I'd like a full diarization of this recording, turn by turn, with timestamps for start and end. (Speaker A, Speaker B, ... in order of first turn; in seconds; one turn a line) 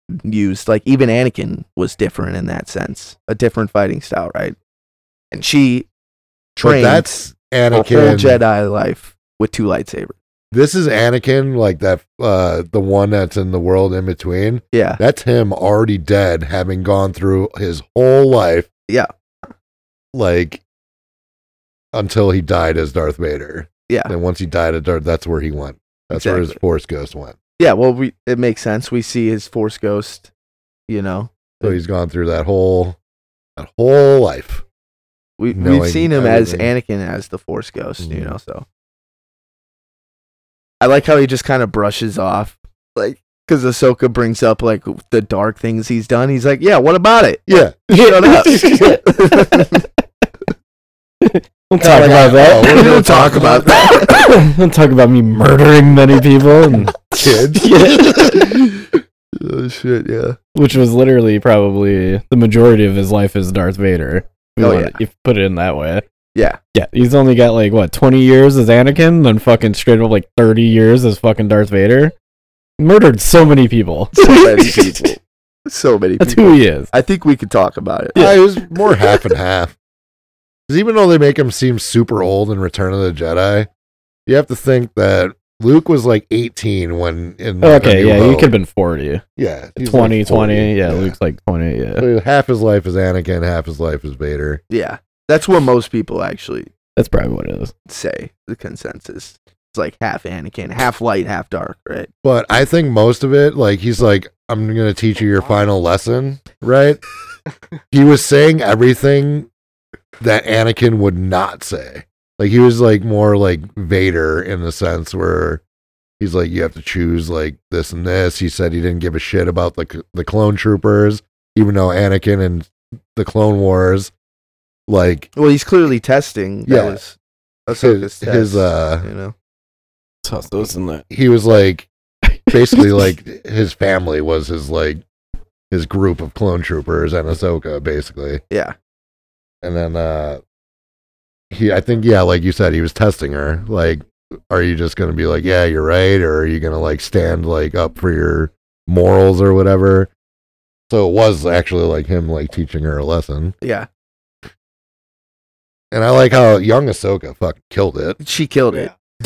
Speaker A: 0.2-4.5
Speaker A: 5.3-5.9
Speaker A: 6.5-7.2
Speaker B: 6.6-8.4
Speaker A: 7.7-10.1
Speaker B: 10.5-18.7
Speaker A: 14.7-15.0
Speaker B: 20.1-20.6
Speaker B: 21.9-27.4
Speaker A: 23.9-24.1
Speaker A: 26.1-26.6
Speaker A: 27.6-30.3
Speaker A: 30.9-31.8
Speaker B: 31.6-33.0
Speaker B: 33.6-34.6
Speaker A: 35.4-38.6
Speaker B: 35.5-36.7
Speaker B: 38.0-38.3
Speaker A: 40.8-49.8
Speaker B: 47.5-47.7
Speaker C: 47.9-49.7
Speaker C: 51.2-53.1
Speaker B: 51.8-54.0
Speaker A: 51.8-54.3
Speaker C: 53.9-58.5
Speaker B: 56.7-57.7
Speaker A: 58.2-58.6
Speaker A: 59.4-60.4
Speaker C: 60.5-66.0
Speaker A: 64.6-65.0
Speaker C: 66.7-72.1
Speaker C: 72.8-75.1
Speaker A: 74.1-78.2
Speaker C: 76.2-76.9
Speaker C: 78.1-78.4
Speaker B: 78.2-79.7
Speaker B: 80.7-83.7
Speaker B: 84.3-88.5
Speaker C: 87.6-89.2
Speaker B: 89.4-91.2
Speaker C: 89.8-92.1
Speaker B: 92.0-94.6
Speaker A: 94.7-96.7
Speaker C: 97.0-97.7
Speaker A: 97.9-102.1
Speaker B: 102.2-107.0
Speaker B: 107.9-109.5
Speaker B: 110.2-115.6
Speaker B: 116.2-124.1
Speaker B: 124.9-125.3
Speaker A: 125.3-127.2
Speaker B: 126.7-127.0
Speaker A: 127.7-129.3
Speaker B: 127.7-129.1
Speaker C: 130.2-131.0
Speaker B: 131.1-131.9
Speaker C: 132.3-133.0
Speaker B: 132.5-135.0
Speaker B: 135.7-138.4
Speaker B: 139.6-140.4
Speaker B: 141.5-150.1
Speaker B: 150.9-153.5
Speaker A: 153.6-153.9
Speaker B: 155.9-158.2
Speaker A: 158.2-158.9